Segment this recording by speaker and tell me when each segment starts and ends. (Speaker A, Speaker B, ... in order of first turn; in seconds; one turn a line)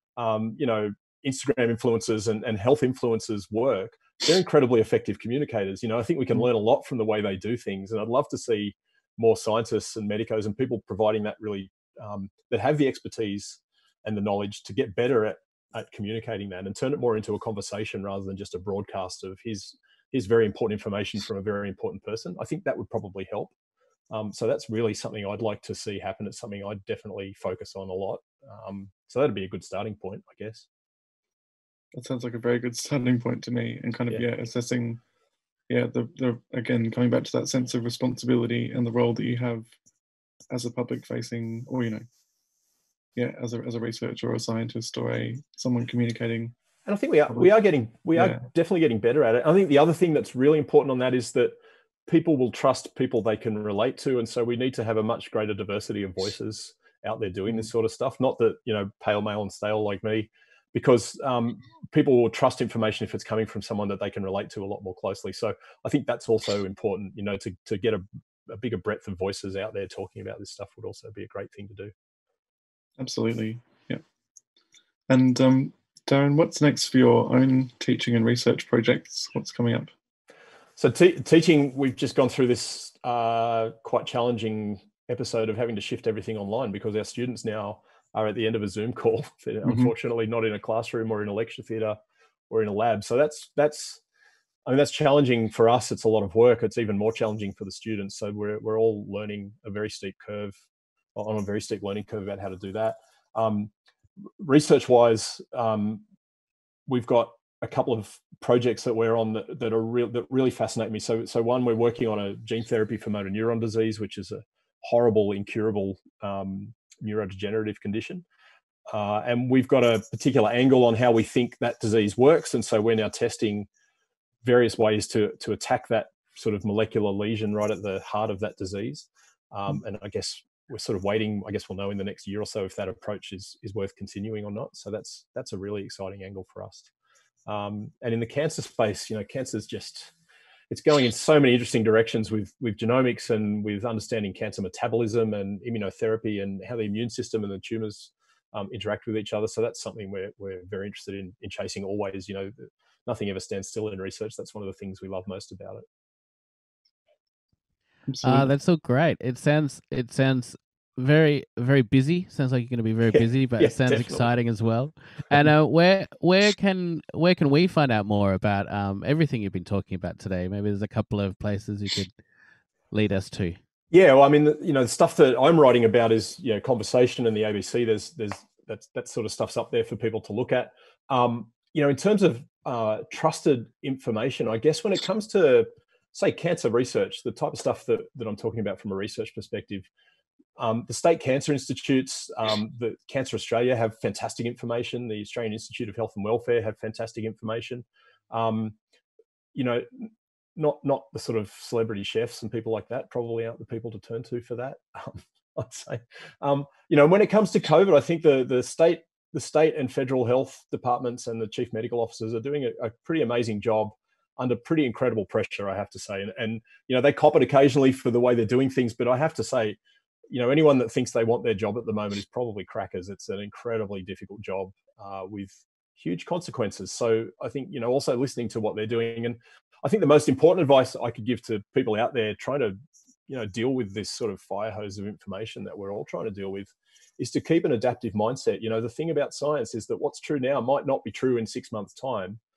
Speaker A: 0.2-23.5
Speaker A: 24.1-30.7
Speaker B: 31.9-35.0
Speaker B: 35.7-39.7
Speaker B: 40.5-42.0
Speaker B: 43.2-46.5
Speaker A: 46.9-51.5
Speaker A: 52.1-71.9
Speaker B: 73.0-74.0
Speaker B: 75.1-79.9
Speaker A: 80.8-92.0
Speaker B: 89.7-89.9
Speaker A: 92.5-94.0
Speaker A: 94.7-100.5
Speaker A: 101.2-103.7
Speaker A: 104.4-106.0
Speaker A: 106.9-118.2
Speaker A: 118.9-123.7
Speaker A: 124.4-136.9
Speaker A: 137.5-140.1
Speaker A: 140.7-155.8
Speaker B: 158.1-158.5
Speaker C: 158.2-172.1
Speaker A: 163.1-164.3
Speaker C: 172.9-173.6
Speaker A: 173.9-189.9
Speaker A: 190.6-198.8
Speaker A: 199.5-219.8
Speaker A: 220.3-232.8
Speaker A: 233.3-242.4